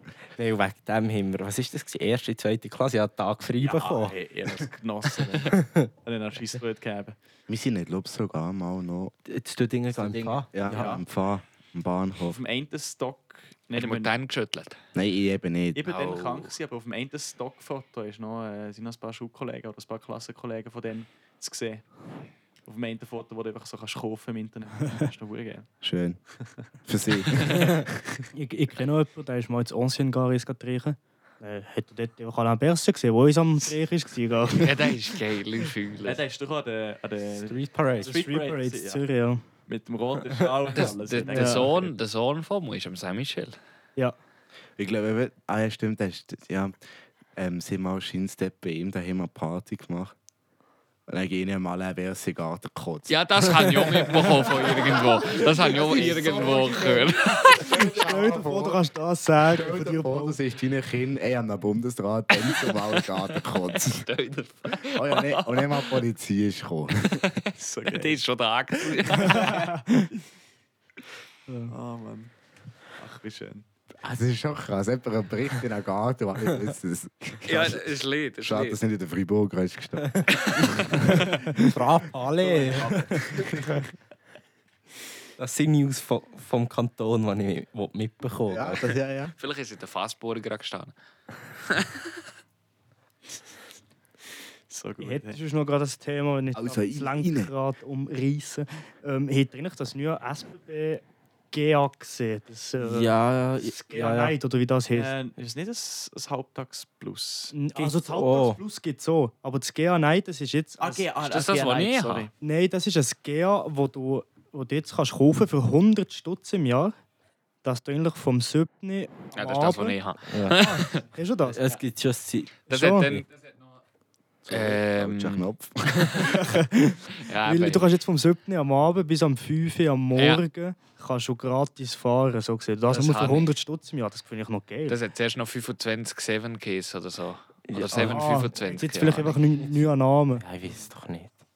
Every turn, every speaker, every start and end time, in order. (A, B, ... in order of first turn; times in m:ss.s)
0:00.4-0:04.2 A
0:03.6-0:07.2 B
0:05.5-0:05.9 A
0:07.5-0:09.1 C
0:09.3-0:11.0 A
0:09.9-0:12.4 C
0:10.7-0:11.0 B
0:12.2-0:14.1 B
0:13.8-0:14.8 D
0:14.9-0:15.8 C
0:15.8-0:21.8 B
0:15.8-0:16.5 D
0:22.6-0:25.7 B
0:25.8-0:26.2 C
0:26.8-0:27.8 C
0:28.3-0:34.9 E
0:34.5-0:36.2 D
0:36.0-0:39.0 B
0:37.4-0:38.1 A
0:38.0-0:39.4 E
0:39.7-0:41.9 B
0:40.7-0:43.5 D
0:41.3-0:41.7 E
0:44.8-0:46.7 C
0:47.4-0:50.1 C
0:51.1-0:58.8 C
0:53.1-0:57.8 D
0:57.6-1:00.4 E
0:59.4-1:04.1 C
1:02.4-1:06.0 D
1:04.8-1:07.2 C
1:07.2-1:09.7 D
1:07.6-1:08.2 B
1:08.8-1:09.7 B
1:09.3-1:10.1 E
1:11.5-1:11.7 E
1:11.7-1:12.3 B
1:13.0-1:13.6 B
1:14.0-1:17.8 C
1:17.4-1:18.8 D
1:18.4-1:21.5 C
1:20.4-1:20.6 D
1:21.1-1:23.4 A
1:22.4-1:23.6 B
1:25.4-1:28.9 A
1:28.5-1:29.3 C
1:29.4-1:30.9 D
1:31.6-1:32.2 D
1:34.7-1:35.4 B
1:35.0-1:45.1 E
1:36.5-1:37.5 C
1:42.8-1:44.3 A
1:44.9-1:47.6 B
1:47.5-1:51.1 E
1:47.8-1:48.6 A
1:50.8-1:52.3 B
1:51.2-1:52.3 D
1:52.4-1:57.0 E
1:57.6-2:01.6 E
1:59.4-2:01.0 D
2:00.3-2:00.6 A
2:01.4-2:02.6 A
2:02.7-2:03.2 E
2:02.7-2:03.7 D
2:04.4-2:06.5 C
2:04.5-2:05.4 D
2:06.2-2:15.0 E
2:07.2-2:07.9 D
2:10.1-2:10.4 D
2:12.9-2:13.5 D
2:14.9-2:19.4 D
2:17.7-2:18.6 A
2:17.9-2:20.4 E
2:20.4-2:21.3 A